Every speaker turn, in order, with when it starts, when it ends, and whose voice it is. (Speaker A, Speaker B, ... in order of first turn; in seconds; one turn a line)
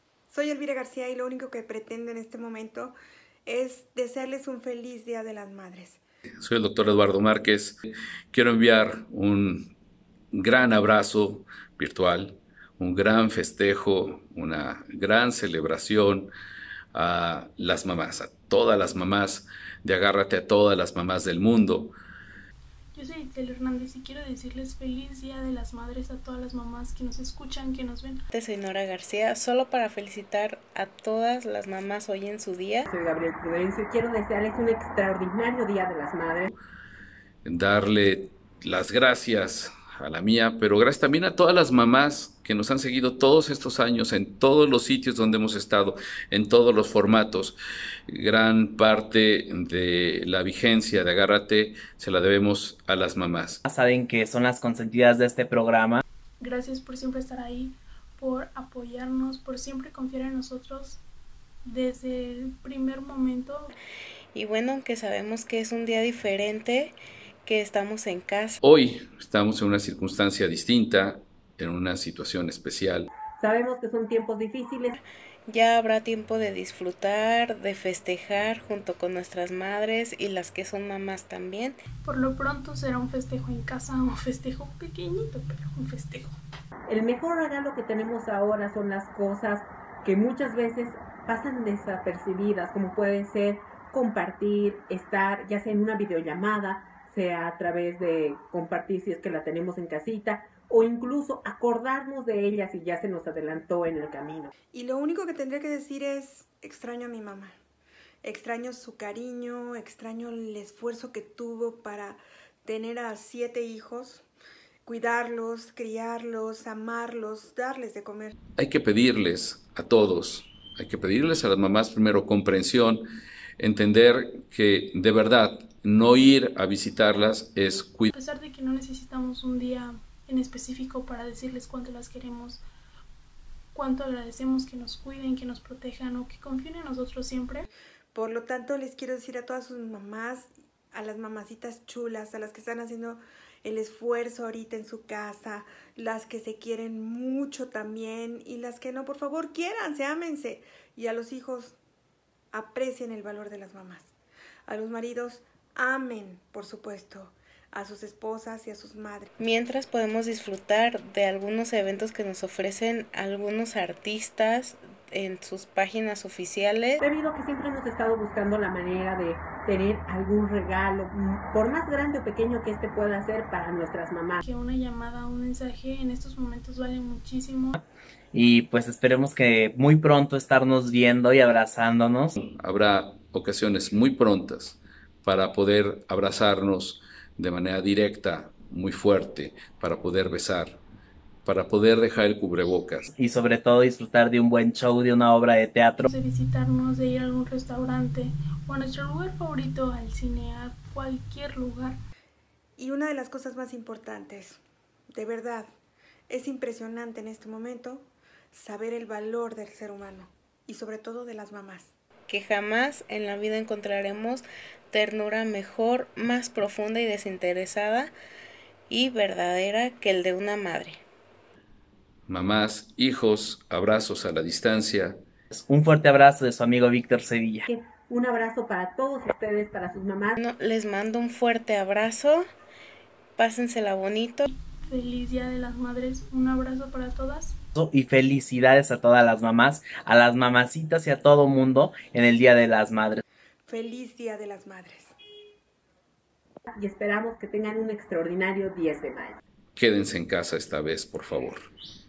Speaker A: 0.3-2.9
Speaker A: 3.5-6.0
Speaker B: 6.4-7.8
Speaker B: 8.3-9.7
Speaker B: 10.3-16.3
Speaker B: 16.9-21.9
Speaker C: 22.9-28.2
Speaker D: 28.3-32.9
Speaker E: 32.9-36.5
Speaker B: 37.4-47.6
Speaker B: 48.1-53.6
Speaker F: 53.6-56.0
Speaker C: 56.4-61.0
Speaker C: 61.6-63.7
Speaker D: 64.3-68.6
Speaker B: 68.6-73.1
Speaker E: 73.4-75.0
Speaker D: 74.9-81.8
Speaker C: 82.0-86.3
Speaker E: 86.9-104.5
Speaker A: 104.7-107.5
Speaker A: 108.2-114.2
Speaker A: 114.8-118.3
Speaker B: 118.5-123.0
Speaker B: 123.6-128.1
Speaker C: 128.1-132.6
Speaker C: 133.7-137.7
Speaker A: 138.1-151.8
Speaker A: 152.5-154.1
Speaker A: 154.7-159.3
Speaker D: 159.4-167.0
Speaker E: 167.0-174.4
Speaker C: 174.4-177.8
Speaker F: 177.8-182.3
Speaker B: 182.4-190.8
Speaker B: 191.4-193.1
Speaker F: 193.1-196.1
Speaker C: 196.0-202.0
Speaker A: 202.8-204.6
Speaker A: 205.1-205.7
Speaker A: 206.3-211.9
Speaker D: 212.3-218.1
Speaker D: 218.9-221.0
Speaker B: 222.3-225.2
Speaker F: 225.5-227.7
Speaker E: 227.7-230.4
Speaker D: 230.3-232.4
Speaker D: 233.4-234.5
Speaker C: 234.5-237.6
Speaker F: 237.7-243.2
Speaker A: 243.7-245.2
Speaker E: 246.7-249.4
Speaker B: 249.8-251.7